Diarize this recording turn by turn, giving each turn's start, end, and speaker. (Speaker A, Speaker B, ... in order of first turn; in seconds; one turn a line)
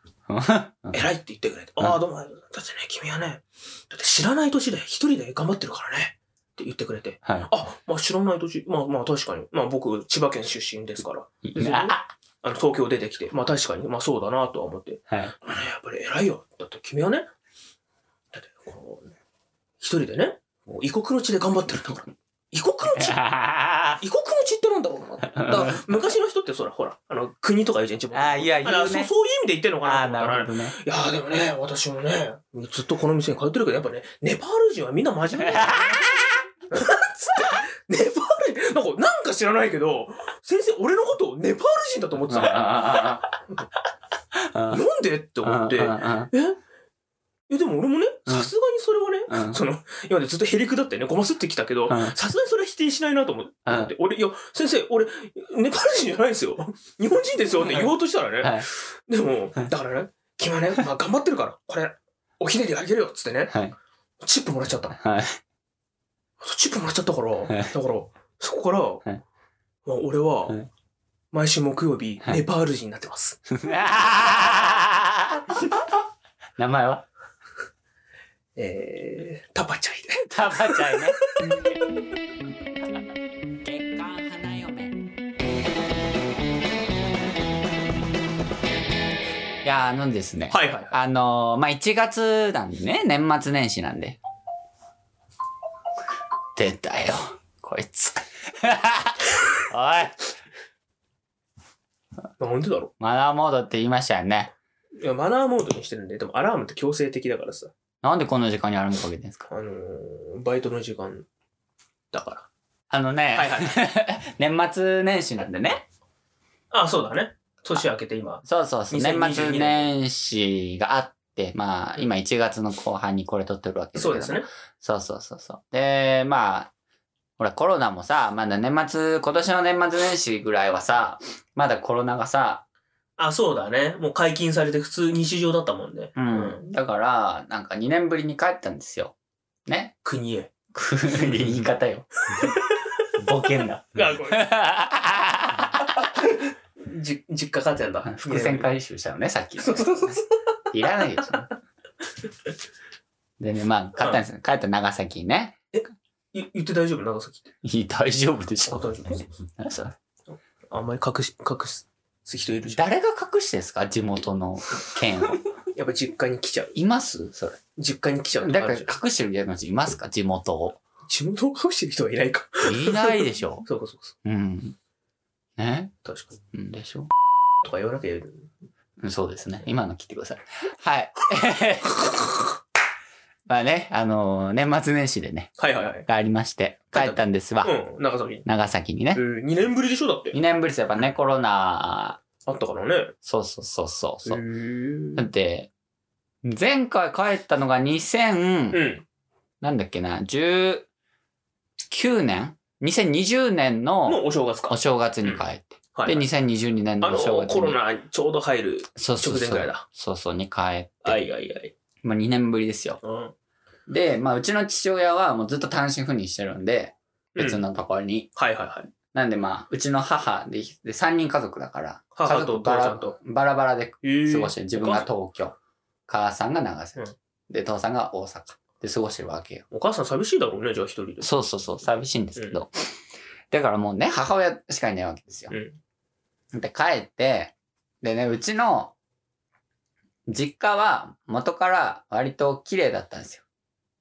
Speaker A: 0.3-1.0
Speaker B: 0.9-17.3
Speaker A: 7.2-7.5
Speaker A: 11.4-12.1
Speaker B: 18.3-19.1
Speaker B: 19.8-23.2
Speaker A: 23.0-24.0
Speaker B: 24.0-43.6
Speaker A: 25.3-26.0
Speaker A: 28.1-29.1
Speaker A: 29.8-30.8
Speaker A: 35.4-36.4
Speaker A: 42.3-43.3
Speaker A: 44.4-44.9
Speaker B: 44.7-46.6
Speaker A: 45.4-46.3
Speaker B: 47.5-63.6
Speaker A: 49.3-49.6
Speaker A: 51.9-52.1
Speaker A: 53.7-53.9
Speaker A: 57.7-58.7
Speaker B: 64.2-65.0
Speaker A: 65.0-65.4
Speaker B: 66.4-69.0
Speaker B: 69.8-70.6
Speaker B: 71.3-73.4
Speaker A: 73.5-76.0
Speaker A: 76.6-77.1
Speaker B: 78.6-81.7
Speaker A: 80.3-81.3
Speaker A: 83.6-85.0
Speaker A: 89.6-94.2
Speaker B: 90.5-91.0
Speaker A: 96.5-100.3
Speaker B: 102.4-102.9
Speaker A: 103.0-104.5
Speaker B: 105.0-107.7
Speaker A: 108.0-109.5
Speaker B: 109.5-111.3
Speaker B: 112.1-112.5
Speaker A: 112.9-115.8
Speaker B: 113.3-113.8
Speaker B: 116.7-119.9
Speaker A: 118.5-126.7
Speaker B: 124.0-124.5
Speaker A: 127.4-132.6
Speaker B: 133.2-136.6
Speaker A: 136.2-139.2
Speaker A: 139.7-139.9
Speaker B: 140.0-140.5
Speaker A: 140.7-142.6
Speaker B: 142.3-143.1
Speaker A: 143.2-146.0
Speaker B: 143.9-144.6
Speaker B: 145.9-148.7
Speaker A: 148.1-151.5
Speaker B: 149.6-150.4
Speaker A: 153.4-155.6
Speaker B: 155.7-157.5
Speaker A: 157.6-160.0
Speaker B: 158.7-159.3
Speaker B: 160.3-162.8
Speaker A: 162.7-165.4
Speaker B: 165.8-166.8
Speaker A: 166.8-167.6
Speaker B: 167.8-168.9
Speaker A: 168.4-170.8
Speaker B: 171.1-174.2
Speaker A: 172.6-173.7
Speaker A: 174.2-174.8
Speaker A: 175.6-175.9
Speaker B: 176.0-176.3
Speaker A: 176.5-177.1
Speaker B: 177.6-178.5
Speaker A: 179.0-182.2
Speaker B: 182.1-182.4
Speaker A: 183.5-187.7
Speaker B: 185.6-186.1
Speaker B: 186.9-188.5
Speaker A: 188.4-189.2
Speaker B: 189.1-190.4
Speaker A: 190.3-192.2
Speaker B: 192.5-193.1
Speaker A: 193.2-194.4
Speaker B: 194.2-195.3
Speaker A: 195.2-195.7
Speaker A: 196.4-198.8
Speaker B: 198.7-199.0
Speaker A: 199.6-200.9
Speaker A: 201.9-207.8
Speaker B: 204.1-205.4
Speaker B: 205.9-206.3
Speaker B: 207.0-209.8
Speaker A: 209.0-211.2
Speaker B: 211.0-211.7
Speaker A: 212.0-213.0
Speaker B: 213.0-213.3
Speaker A: 213.9-218.3
Speaker B: 217.4-217.6
Speaker B: 218.4-218.9
Speaker A: 219.1-225.6
Speaker B: 222.2-223.2
Speaker B: 224.0-225.1
Speaker A: 226.1-229.7
Speaker B: 229.7-231.3
Speaker A: 231.2-232.8
Speaker A: 233.5-235.5
Speaker B: 235.5-235.8
Speaker A: 236.5-238.9
Speaker A: 240.3-243.4